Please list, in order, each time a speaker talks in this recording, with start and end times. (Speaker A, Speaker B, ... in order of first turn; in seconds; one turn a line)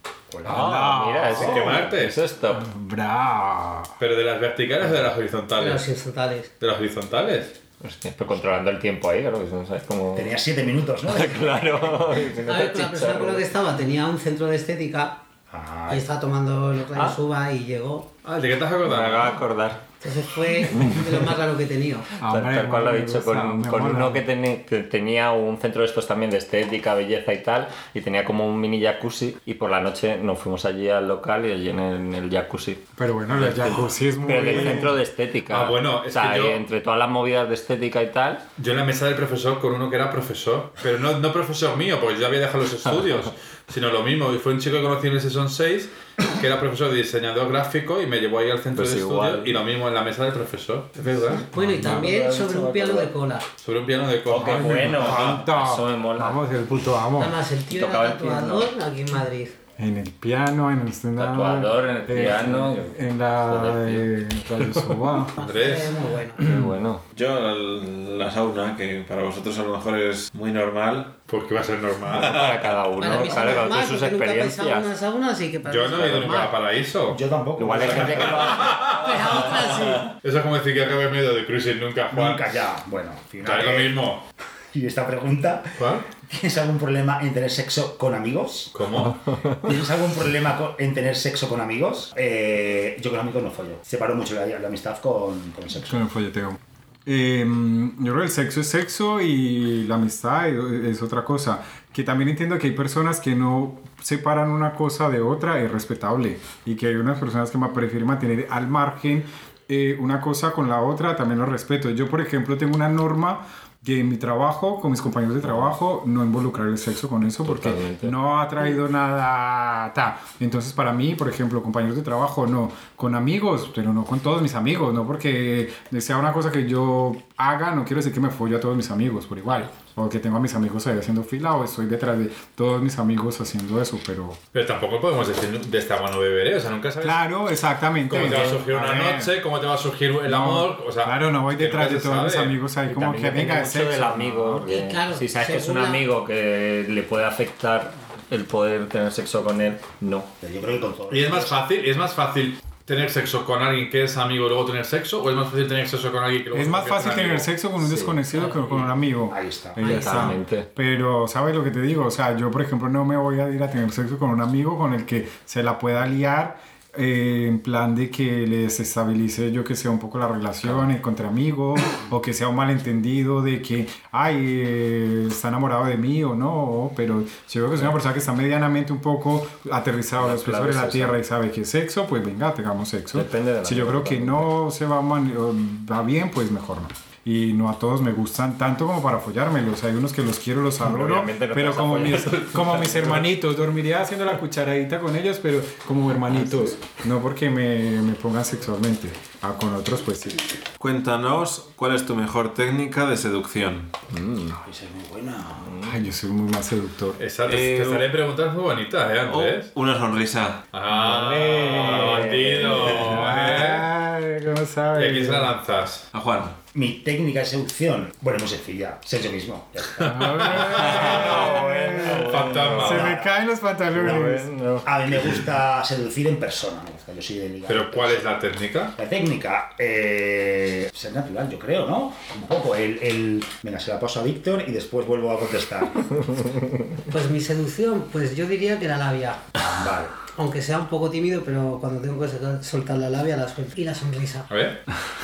Speaker A: 0.3-0.7
Speaker B: 0.4-1.6
Speaker C: 0.4-2.7
Speaker D: 1.4-2.2
Speaker A: 1.4-1.8
Speaker B: 2.5-3.9
Speaker D: 4.0-5.8
Speaker E: 5.5-6.5
Speaker D: 6.6-7.5
Speaker C: 7.8-10.3
Speaker A: 10.1-11.7
Speaker C: 11.1-13.4
Speaker E: 12.4-15.2
Speaker A: 15.5-16.1
Speaker E: 15.9-18.1
Speaker D: 18.2-19.4
Speaker C: 18.8-19.8
Speaker E: 20.0-22.1
Speaker C: 20.7-21.0
Speaker B: 22.2-24.2
Speaker C: 22.2-38.4
Speaker B: 33.0-35.0
Speaker D: 35.5-36.6
Speaker D: 38.6-51.5
Speaker C: 48.7-49.6
Speaker B: 51.0-52.1
Speaker C: 51.3-53.1
Speaker E: 51.5-53.5
Speaker D: 53.6-55.5
Speaker C: 54.3-56.4
Speaker B: 54.4-57.4
Speaker E: 57.1-59.6
Speaker C: 57.7-58.7
Speaker B: 59.8-65.3
Speaker C: 61.1-64.1
Speaker E: 65.3-66.5
Speaker D: 65.4-66.0
Speaker C: 66.4-67.0
Speaker F: 67.1-71.1
Speaker D: 71.3-72.5
Speaker F: 72.2-72.6
Speaker C: 72.2-74.9
Speaker E: 73.0-76.6
Speaker D: 75.6-77.2
Speaker A: 77.1-78.7
Speaker C: 77.6-78.8
Speaker D: 77.8-82.5
Speaker E: 78.8-80.1
Speaker A: 82.1-83.9
Speaker D: 83.4-84.2
Speaker A: 84.7-88.7
Speaker D: 85.8-86.0
Speaker D: 88.7-89.4
Speaker A: 89.6-96.0
Speaker B: 95.7-134.4
Speaker C: 115.4-115.7
Speaker C: 117.4-118.1
Speaker D: 134.5-137.2
Speaker B: 137.0-139.3
Speaker D: 138.1-142.6
Speaker B: 140.2-144.7
Speaker C: 142.9-150.3
Speaker E: 144.6-146.0
Speaker A: 150.4-151.6
Speaker D: 151.1-157.5
Speaker B: 156.5-200.5
Speaker C: 157.8-158.2
Speaker A: 159.3-159.8
Speaker E: 159.8-160.3
Speaker C: 159.8-160.7
Speaker C: 180.2-181.2
Speaker C: 183.1-184.5
Speaker C: 190.8-193.3
Speaker F: 200.8-203.9
Speaker C: 204.1-204.6
Speaker A: 204.6-205.8
Speaker C: 205.6-206.0
Speaker B: 205.8-207.2
Speaker D: 207.2-209.7
Speaker F: 207.4-208.1
Speaker F: 209.2-210.6
Speaker D: 210.7-213.9
Speaker B: 210.9-215.6
Speaker C: 211.9-212.9
Speaker D: 214.9-216.1
Speaker F: 216.1-216.6
Speaker A: 216.7-221.3
Speaker B: 220.0-224.5
Speaker D: 220.0-221.4
Speaker C: 220.6-223.1
Speaker D: 222.3-223.2
Speaker A: 222.7-223.3
Speaker C: 223.9-224.9
Speaker A: 223.9-228.2
Speaker D: 227.7-228.9
Speaker A: 229.0-236.4
Speaker E: 237.1-239.4
Speaker A: 239.6-240.2
Speaker E: 240.3-244.5
Speaker D: 244.5-244.8